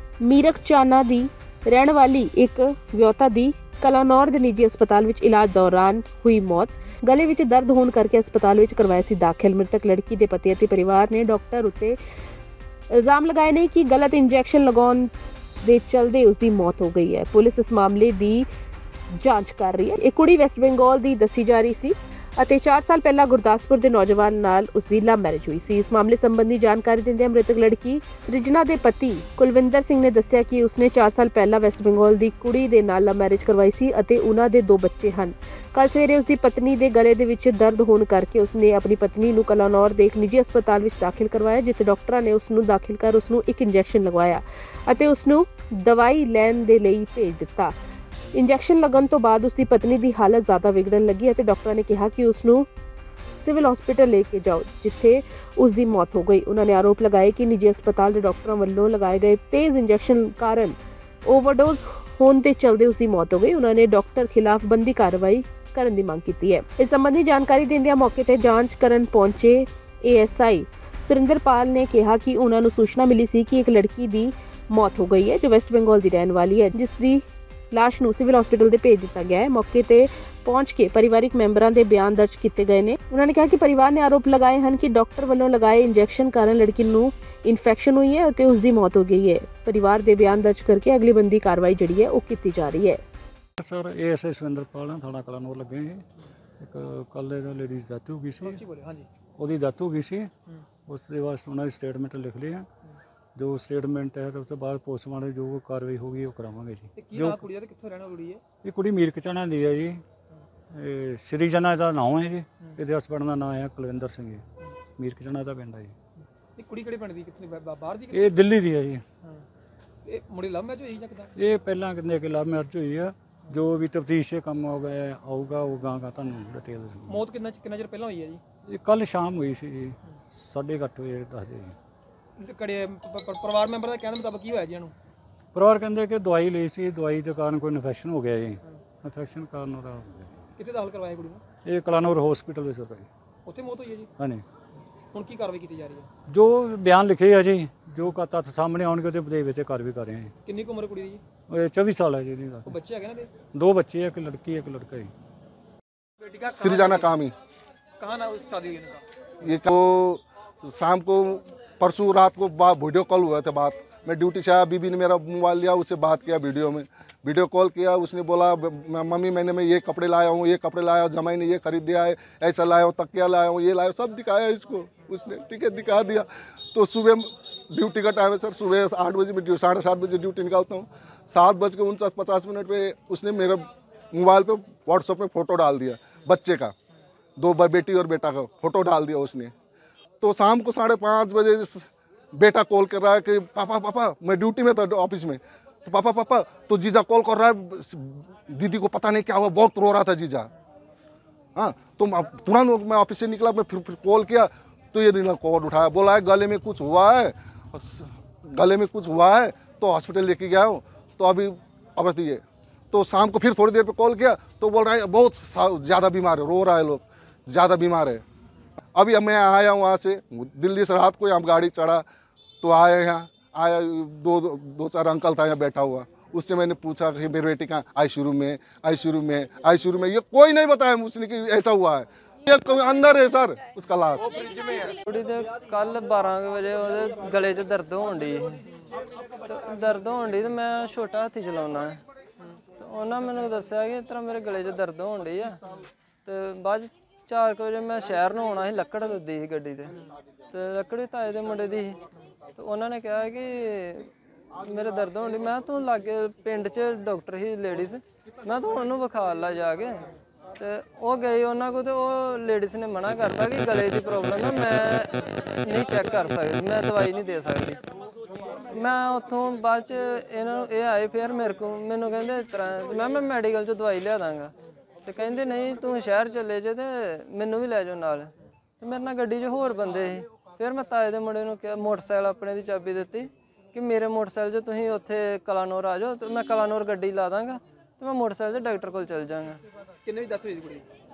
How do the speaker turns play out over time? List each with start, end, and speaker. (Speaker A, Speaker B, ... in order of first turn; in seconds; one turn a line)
Speaker A: 0.2-12.0
Speaker A: 12.9-15.1
Speaker A: 15.6-18.5
Speaker A: 19.2-47.8
Speaker A: 48.3-52.7
Speaker A: 53.4-93.0
Speaker B: 93.6-96.0
Speaker B: 96.6-98.6
Speaker C: 98.4-99.1
Speaker B: 99.4-100.3
Speaker B: 100.8-102.7
Speaker B: 103.3-107.4
Speaker C: 107.0-108.4
Speaker B: 108.6-110.0
Speaker B: 110.7-114.4
Speaker B: 115.0-116.0
Speaker C: 116.2-118.4
Speaker B: 118.1-119.0
Speaker C: 120.0-121.3
Speaker B: 121.4-127.2
Speaker C: 127.1-128.4
Speaker B: 128.7-131.8
Speaker C: 132.4-134.9
Speaker B: 135.5-140.5
Speaker C: 140.6-141.4
Speaker B: 141.7-143.1
Speaker C: 143.5-144.1
Speaker B: 144.2-144.4
Speaker C: 145.1-146.1
Speaker B: 146.3-150.3
Speaker C: 150.4-151.2
Speaker B: 151.5-152.8
Speaker C: 152.7-153.3
Speaker B: 153.5-155.1
Speaker C: 156.2-157.2
Speaker D: 156.6-157.3
Speaker C: 158.0-159.1
Speaker D: 159.4-186.7
Speaker D: 187.4-189.5
Speaker D: 190.2-200.5
Speaker D: 201.6-218.2
Speaker D: 218.9-222.1
Speaker D: 222.6-234.5
Speaker E: 234.8-238.7
Speaker E: 239.4-245.6
Speaker E: 246.2-252.0
Speaker E: 252.6-267.8
Speaker E: 268.7-289.6
Speaker C: 290.0-290.9